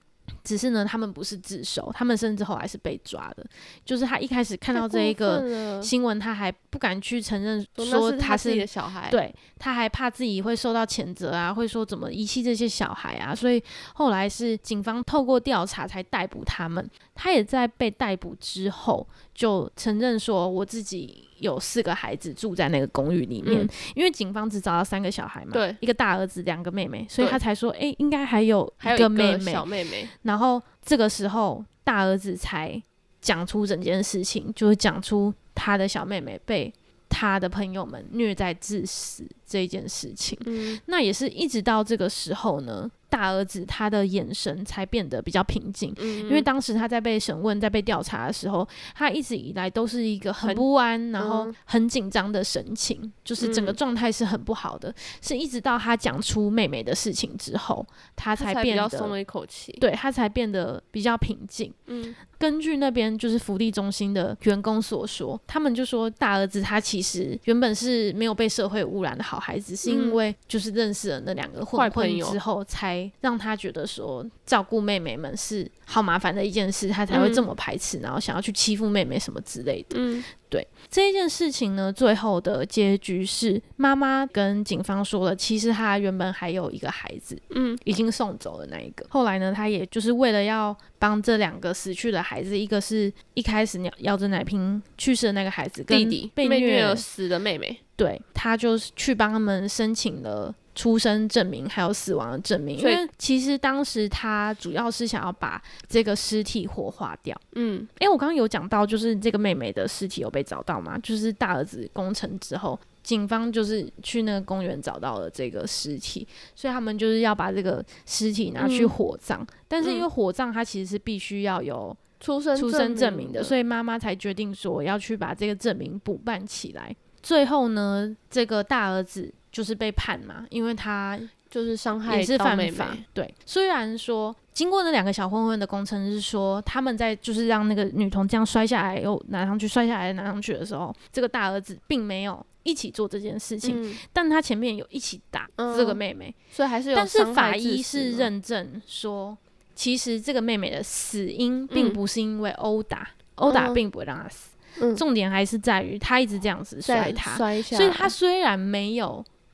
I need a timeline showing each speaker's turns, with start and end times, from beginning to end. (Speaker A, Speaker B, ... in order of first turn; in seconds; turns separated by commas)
Speaker A: 0.4-29.7, Speaker B: 4.7-5.9, Speaker B: 7.8-9.2, Speaker B: 23.4-23.7, Speaker B: 25.5-25.8, Speaker B: 28.8-30.1, Speaker A: 30.2-59.1, Speaker B: 40.4-40.8, Speaker B: 46.0-46.5, Speaker B: 51.2-51.5, Speaker B: 53.4-53.8, Speaker B: 58.4-59.8, Speaker A: 59.8-61.8, Speaker B: 61.9-62.1, Speaker A: 62.3-97.0, Speaker B: 69.8-70.2, Speaker B: 71.7-72.4, Speaker B: 77.1-77.4, Speaker B: 79.9-80.2, Speaker B: 87.5-87.8, Speaker B: 95.9-97.8, Speaker A: 98.0-107.4, Speaker B: 102.8-103.0, Speaker B: 107.5-107.9, Speaker A: 108.0-122.0, Speaker B: 118.6-118.9, Speaker B: 122.2-123.5, Speaker A: 122.5-131.3, Speaker B: 131.5-133.0, Speaker A: 132.1-146.3, Speaker B: 143.6-144.0, Speaker B: 145.6-146.0, Speaker B: 146.5-148.3, Speaker A: 146.9-159.2, Speaker B: 151.7-152.0, Speaker B: 153.5-153.8, Speaker B: 156.8-158.1